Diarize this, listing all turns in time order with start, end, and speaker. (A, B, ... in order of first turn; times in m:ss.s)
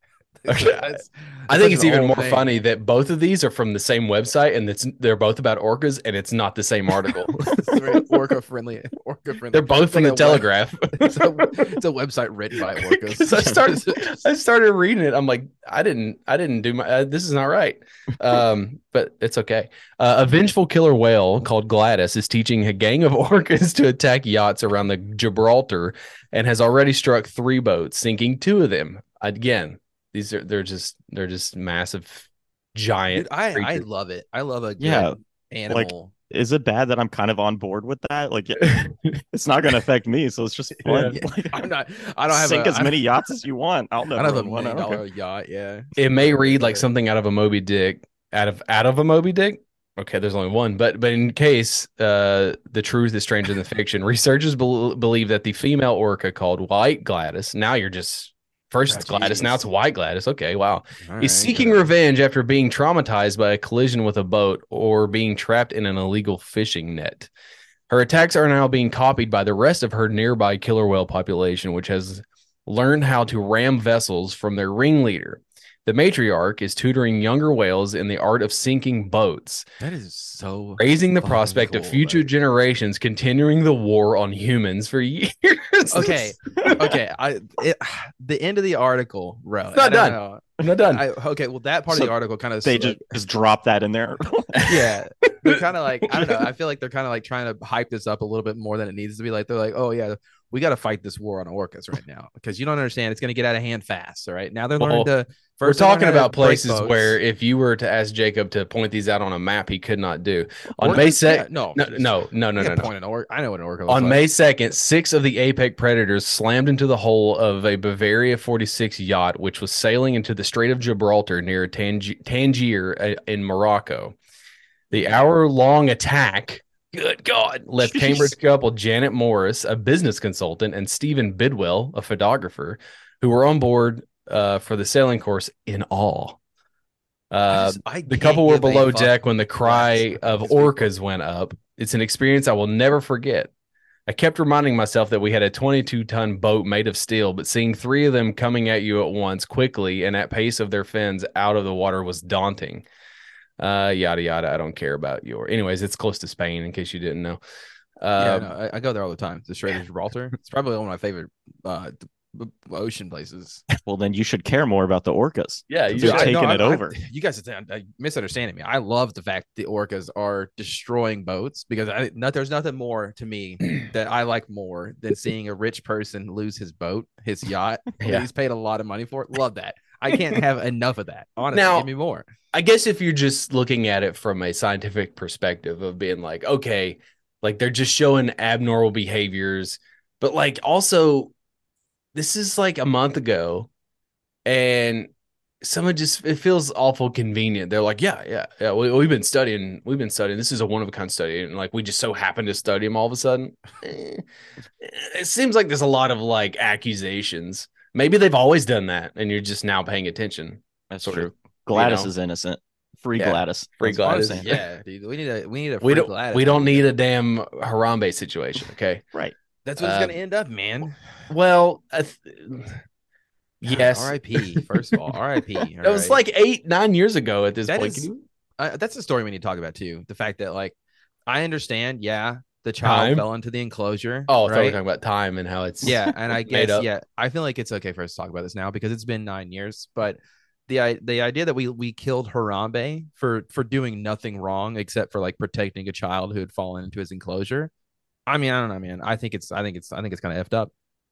0:00.4-0:02.5 A
0:00.5-0:00.8 B
0:01.5-0:08.1 B
0:07.5-0:14.2 A
0:09.5-0:11.7 B
0:12.8-0:33.8 B
0:33.1-0:36.1 A
0:34.8-0:35.1 C
0:35.7-0:41.7 C
0:40.9-0:43.0 A
0:42.3-0:45.0 C
0:44.1-0:46.9 A
0:46.0-1:07.3 B
0:58.9-0:59.6 A
1:01.0-1:01.9 A
1:07.9-1:19.6 B
1:19.8-1:22.2 A
1:20.8-1:26.8 B
1:25.9-1:33.1 A
1:29.7-1:31.0 B
1:32.6-1:34.6 C
1:34.6-1:36.4 B
1:34.6-1:47.2 A
1:44.8-1:45.1 B
1:45.6-1:52.9 B
1:50.8-1:54.2 A
1:53.9-2:04.2 B
2:04.9-2:16.4 B
2:08.0-2:08.2 C
2:17.3-2:23.5 B
2:17.5-2:20.9 A
2:24.1-2:32.8 B
2:33.6-2:37.4 B
2:38.0-2:38.5 B
2:38.2-2:43.6 A
2:43.8-2:47.0 C
2:45.7-2:46.4 B
2:46.0-3:02.2 A
2:58.0-2:58.3 B
3:01.5-3:01.9 B
3:02.5-3:11.3 B
3:12.1-3:13.7 B
3:14.4-3:15.1 B
3:15.6-3:24.2 B
3:24.8-3:32.1 B
3:30.9-3:34.6 C
3:33.2-3:34.4 B
3:34.0-3:36.9 A
3:35.8-3:39.0 B
3:39.6-3:41.0 A
3:39.8-3:40.2 B
3:41.3-3:42.8 B
3:43.6-3:44.6 B
3:43.7-3:46.2 A
3:45.8-3:48.2 B
3:47.7-3:50.7 A
3:51.3-3:54.8 A
3:52.8-3:53.2 B
3:54.3-3:56.0 B
3:55.8-4:07.7 A
3:56.5-3:56.9 B
4:08.3-4:10.7 A